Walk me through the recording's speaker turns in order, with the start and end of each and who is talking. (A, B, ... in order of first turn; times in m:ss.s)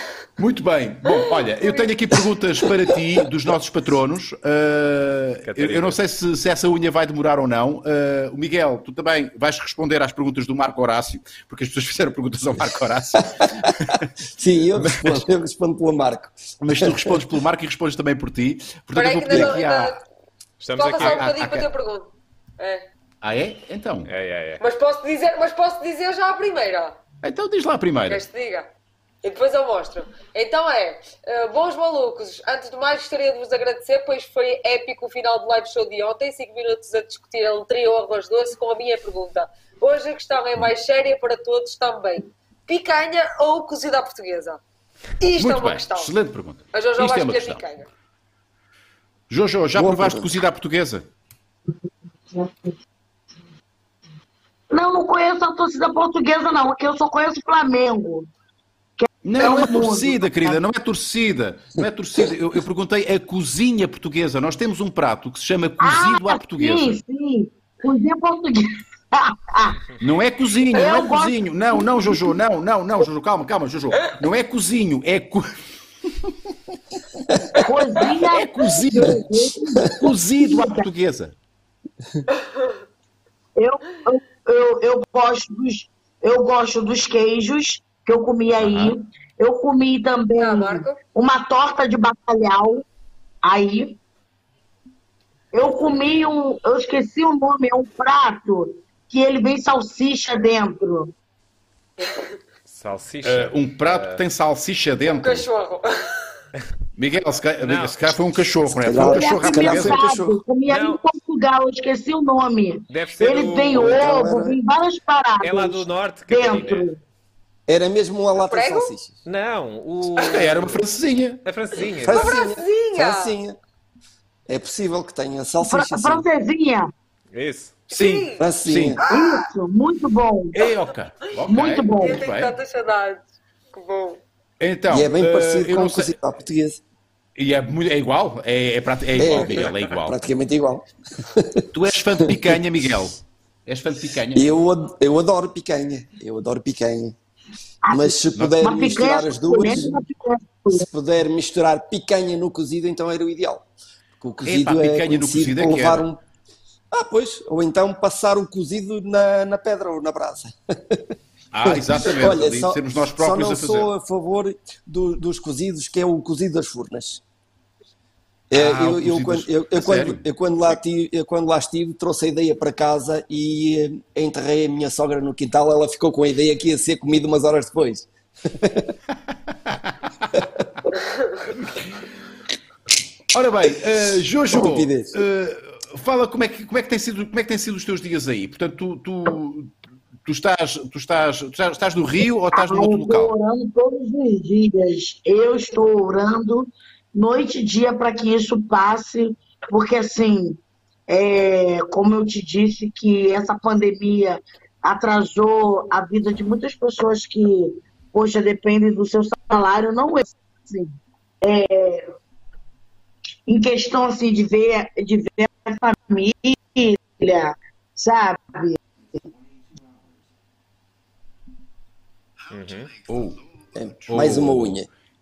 0:00.4-0:14.1 A
0:05.5-0:06.0 B
0:13.2-0:13.7 C
0:14.4-0:17.2 C
0:16.6-0:20.0 A
0:18.9-0:20.0 D
0:19.3-0:19.6 C
0:20.6-0:21.4 B
0:20.8-0:22.8 D
0:21.0-0:21.7 A
0:23.2-0:24.1 A
0:24.1-0:24.6 B
0:24.6-0:27.0 D
0:27.2-0:28.2 A
0:28.1-0:28.7 D
0:29.2-0:44.6 D
0:45.2-0:46.1 D
0:45.4-0:47.7 A
0:46.7-0:47.9 D
0:49.3-0:51.0 A
0:49.7-0:50.4 C
0:52.3-0:52.7 E
0:54.7-0:58.3 E
0:59.0-1:00.6 E
0:59.2-1:07.0 A
1:05.8-1:09.9 E
1:10.0-1:15.5 A
1:10.7-1:11.4 E
1:16.1-1:16.3 A
1:17.6-1:20.9 E
1:18.0-1:19.2 A
1:19.9-1:21.3 A
1:23.6-1:32.8 E
1:28.6-1:29.0 A
1:30.4-1:31.0 D
1:33.4-1:34.0 E
1:35.5-1:41.1 E
1:42.7-1:44.2 B
1:43.2-1:45.5 A
1:45.0-1:46.3 D
1:47.0-1:50.0 A
1:47.6-1:48.1 B
1:48.8-1:50.4 C
1:48.9-1:57.0 E
1:50.6-1:51.0 B
1:52.9-1:54.2 B
1:53.7-1:54.6 C
1:55.4-1:57.0 B
1:57.7-1:59.2 C
1:58.4-1:58.9 D
1:59.2-2:00.8 B
2:00.2-2:01.4 A
2:01.4-2:02.4 B
2:02.0-2:03.6 C
2:02.1-2:03.3 D
2:04.5-2:06.2 C
2:05.6-2:06.9 E
2:07.3-2:07.8 B
2:07.9-2:08.4 D
2:07.9-2:09.0 A
2:08.4-2:09.0 C
2:09.0-2:09.4 D
2:09.0-2:10.7 E
2:10.5-2:12.5 A
2:11.4-2:12.2 E
2:12.0-2:13.2 D
2:13.7-2:14.2 D
2:14.6-2:16.1 A
2:14.9-2:16.8 C
2:17.4-2:20.2 A
2:19.1-2:21.7 C
2:21.7-2:24.5 A
2:22.2-2:22.6 C
2:24.3-2:27.2 C
2:27.8-2:30.8 E
2:27.9-2:30.0 C
2:28.4-2:28.7 A
2:30.7-2:33.6 C
2:34.2-2:36.2 C
2:34.4-2:36.1 A
2:36.9-2:41.1 C
2:41.5-2:43.9 A
2:41.6-2:47.2 C
2:48.5-2:58.9 C
2:48.5-2:50.2 A
2:59.7-3:00.4 A
3:03.3-3:09.7 A
3:04.5-3:05.1 C
3:10.2-3:13.3 A
3:12.5-3:32.1 E
3:33.5-3:38.8 E
3:42.5-3:42.9 B
3:43.0-3:43.4 A
3:43.7-3:44.9 C
3:44.0-3:44.8 A